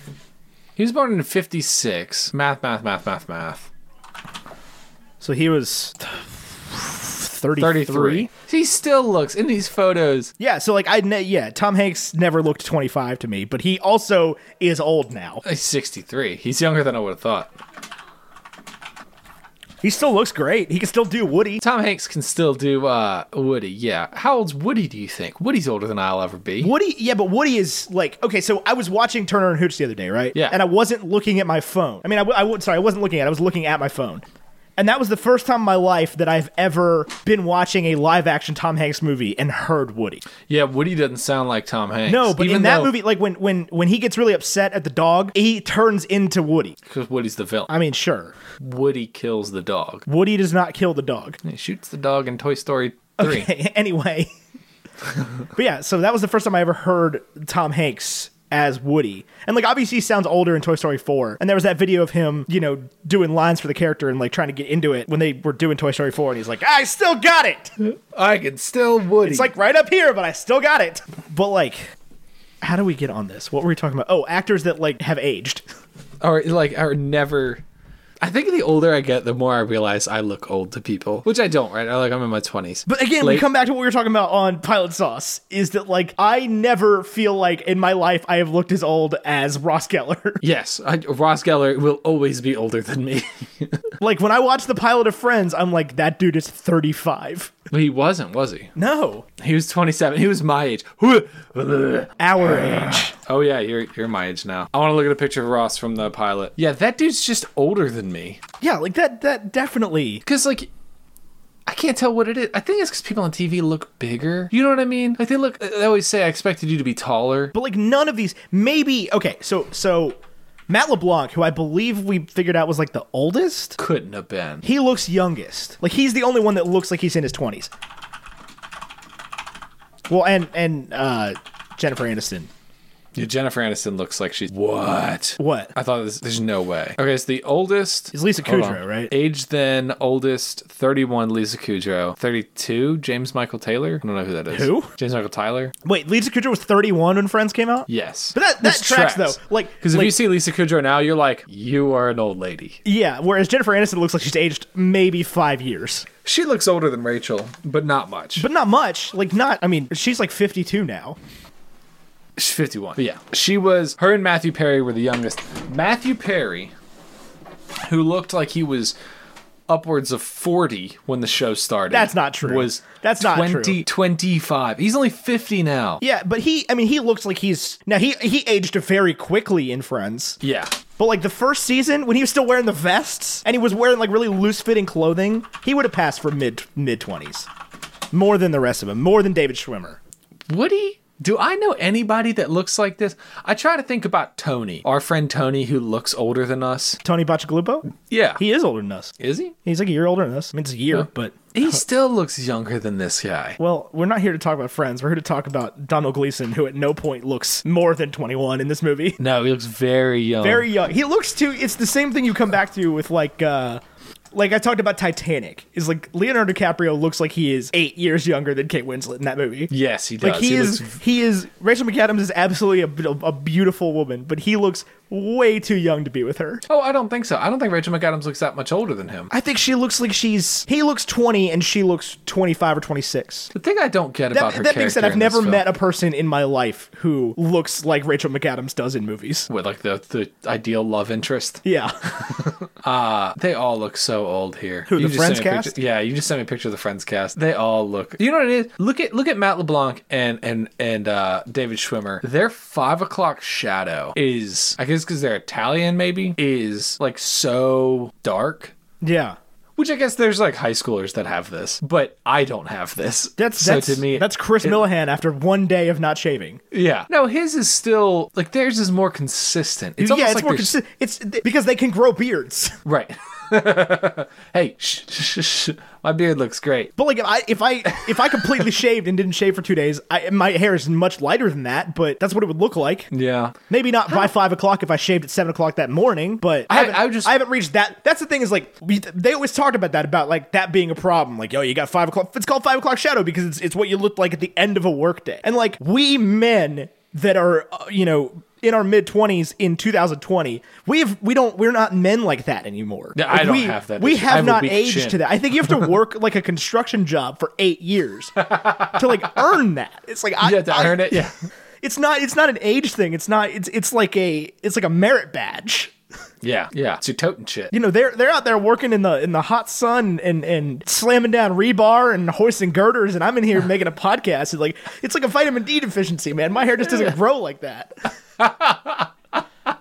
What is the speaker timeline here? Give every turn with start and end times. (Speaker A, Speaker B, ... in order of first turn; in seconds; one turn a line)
Speaker A: 0.8-3.7
Speaker B: 5.2-8.3
Speaker A: 7.6-10.3
Speaker B: 10.4-15.4
Speaker A: 15.4-17.5
Speaker B: 19.8-21.6
Speaker A: 21.6-26.7
Speaker B: 26.6-34.2
Speaker A: 30.3-30.6
Speaker B: 34.8-40.2
Speaker A: 40.5-42.9
Speaker B: 42.1-46.8
Speaker A: 46.9-47.7
Speaker B: 47.7-48.3
Speaker A: 48.6-50.1
Speaker B: 50.1-51.4
Speaker A: 51.4-53.5
Speaker B: 53.2-54.3
Speaker B: 55.5-67.7
Speaker A: 67.8-69.5
Speaker B: 69.2-71.9
Speaker B: 72.6-75.6
Speaker A: 76.2-77.6
Speaker A: 78.2-83.5
Speaker B: 82.9-90.4
Speaker A: 90.4-93.9
Speaker B: 94.0-97.5
Speaker A: 97.7-98.7
Speaker B: 98.7-99.2
Speaker A: 99.4-108.4
Speaker B: 102.2-103.1
Speaker B: 108.6-110.2
Speaker A: 110.2-110.7
Speaker A: 111.7-117.5
Speaker B: 117.5-120.2
Speaker B: 120.7-123.8
Speaker A: 123.8-124.6
Speaker B: 124.6-127.7
Speaker B: 130.1-132.5
Speaker A: 133.1-145.7
Speaker B: 135.4-135.7
Speaker B: 138.1-139.1
Speaker B: 144.5-144.9
Speaker B: 145.8-150.2
Speaker A: 147.9-152.8
Speaker B: 152.8-156.1
Speaker A: 156.2-158.5
Speaker B: 158.4-161.2
Speaker A: 162.4-166.7
Speaker A: 167.8-168.9
Speaker A: 169.7-176.0
Speaker B: 171.9-173.8
Speaker B: 176.0-180.4
Speaker A: 180.4-180.7
Speaker B: 181.0-187.5
Speaker B: 188.1-190.0
Speaker A: 190.5-197.0
Speaker B: 197.0-199.1
Speaker A: 198.1-198.4
Speaker A: 199.2-199.5
Speaker B: 199.6-201.8
Speaker A: 200.9-203.6
Speaker B: 203.6-209.2
Speaker A: 209.2-210.7
Speaker B: 210.4-213.8
Speaker B: 214.3-226.6
Speaker A: 219.7-221.0
Speaker A: 226.7-229.3
Speaker B: 229.3-233.5
Speaker A: 233.5-235.6
Speaker B: 234.3-239.5
Speaker A: 239.5-241.6
Speaker B: 241.6-241.9
Speaker A: 242.3-258.7
Speaker B: 244.9-245.7
Speaker B: 259.0-259.4
Speaker A: 259.8-264.8
Speaker B: 263.4-266.6
Speaker A: 266.7-270.7
Speaker B: 270.0-272.8
Speaker A: 272.9-276.9
Speaker B: 277.0-283.1
Speaker A: 283.1-283.6
Speaker B: 283.7-311.3
Speaker A: 286.7-287.3
Speaker A: 303.1-305.2
Speaker A: 308.4-309.0
Speaker A: 310.4-311.4
Speaker B: 311.8-315.9
Speaker A: 316.4-317.7
Speaker B: 317.7-327.9
Speaker A: 328.4-329.4